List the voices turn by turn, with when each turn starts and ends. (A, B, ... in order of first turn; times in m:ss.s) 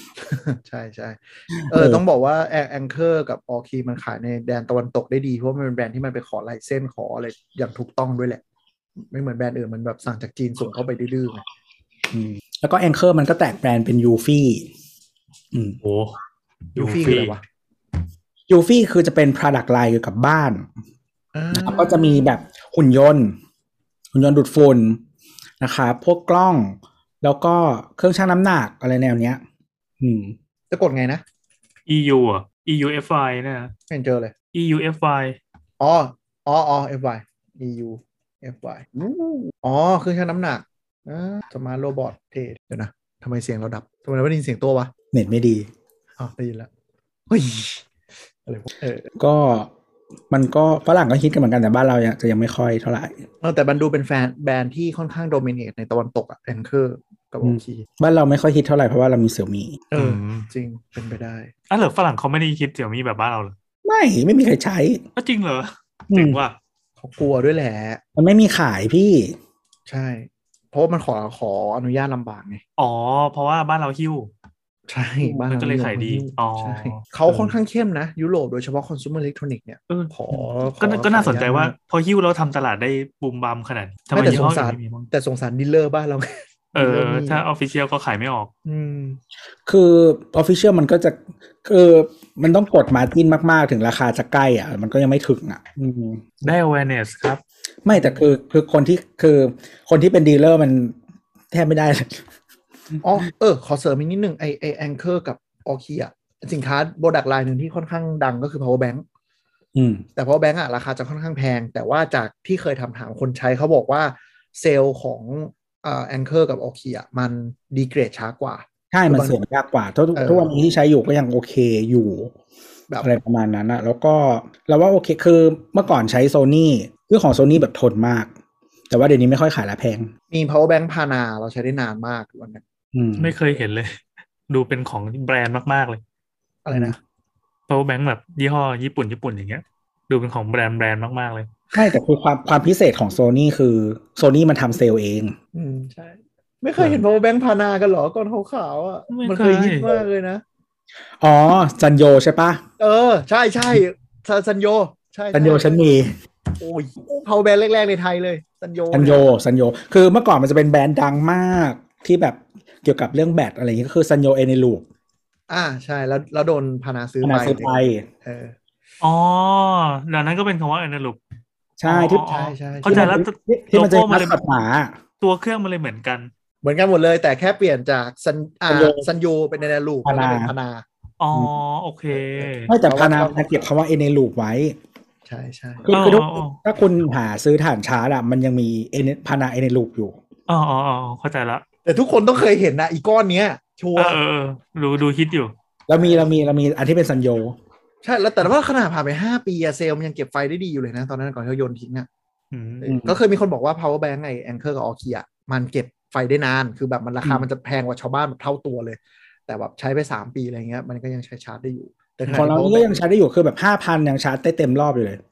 0:00.2-0:08.4 A
0:01.5-0:02.0 B
0:09.0-0:11.4 A
0:12.1-0:14.7 B
0:15.8-0:16.2 C
0:16.8-0:17.4 A
0:16.8-0:17.3 C
0:18.5-0:20.7 B
0:21.3-0:22.1 A
0:21.5-0:23.4 B
0:24.1-0:25.0 B
0:25.6-0:29.4 B
0:30.0-0:30.4 B
0:30.7-0:31.2 A
0:31.9-0:33.7 C
0:33.9-0:34.3 A
0:34.5-0:35.4 C
0:35.8-0:44.9 A
0:45.1-0:45.7 B
0:46.2-0:46.7 A
0:47.3-0:47.9 A
0:48.5-0:49.1 A
0:49.2-0:49.7 B
0:50.3-0:53.2 B
0:53.4-0:57.9 A
0:57.4-0:59.8 B
0:59.9-1:01.5 A
0:59.9-1:00.5 C
1:01.7-1:03.6 C
1:03.8-1:05.0 B
1:05.2-1:06.6 C
1:06.1-1:06.4 B
1:07.0-1:08.0 A
1:08.2-1:09.4 B
1:09.9-1:12.6 A
1:12.8-1:14.3 C
1:14.9-1:21.7 A
1:15.5-1:17.6 C
1:19.9-1:25.1 C
1:24.1-1:27.4 A
1:26.7-1:28.5 C
1:28.6-1:29.2 A
1:29.7-1:36.2 B
1:36.4-1:37.4 C
1:37.8-1:41.0 B
1:37.9-1:38.2 A
1:41.5-1:42.2 B
1:43.0-1:49.0 A
1:49.8-1:50.0 B
1:50.2-1:59.4 A
1:58.9-2:02.3 B
2:00.1-2:00.5 A
2:03.0-2:08.3 B
2:08.9-2:10.1 B
2:10.3-2:12.6 A
2:12.9-2:13.4 B
2:13.2-2:16.0 C
2:16.6-2:17.0 A
2:17.7-2:21.6 C
2:21.7-2:25.4 B
2:25.5-2:30.4 A
2:29.1-2:30.0 C
2:31.2-2:32.6 B
2:32.8-2:35.8 A
2:35.3-2:36.2 B
2:36.6-2:39.3 A
2:38.9-2:44.8 B
2:45.5-2:48.6 A
2:47.2-2:48.1 B
2:49.0-2:51.2 C
2:51.8-2:52.2 B
2:51.8-2:54.4 C
2:52.2-2:53.1 A
2:52.9-2:55.0 B
2:55.2-2:56.3 C
2:56.6-3:00.8 A
2:58.7-2:59.1 B
3:00.0-3:00.5 B
3:01.2-3:02.7 C
3:02.2-3:03.6 A
3:02.7-3:04.8 B
3:05.3-3:05.9 A
3:05.9-3:10.2 B
3:05.9-3:06.6 C
3:10.5-3:11.6 C
3:11.8-3:14.2 A
3:14.0-3:15.5 C
3:15.9-3:17.6 B
3:16.0-3:16.3 A
3:18.0-3:22.1 A
3:22.5-3:22.9 C
3:22.8-3:32.9 A
3:22.9-3:23.2 B
3:32.3-3:35.2 B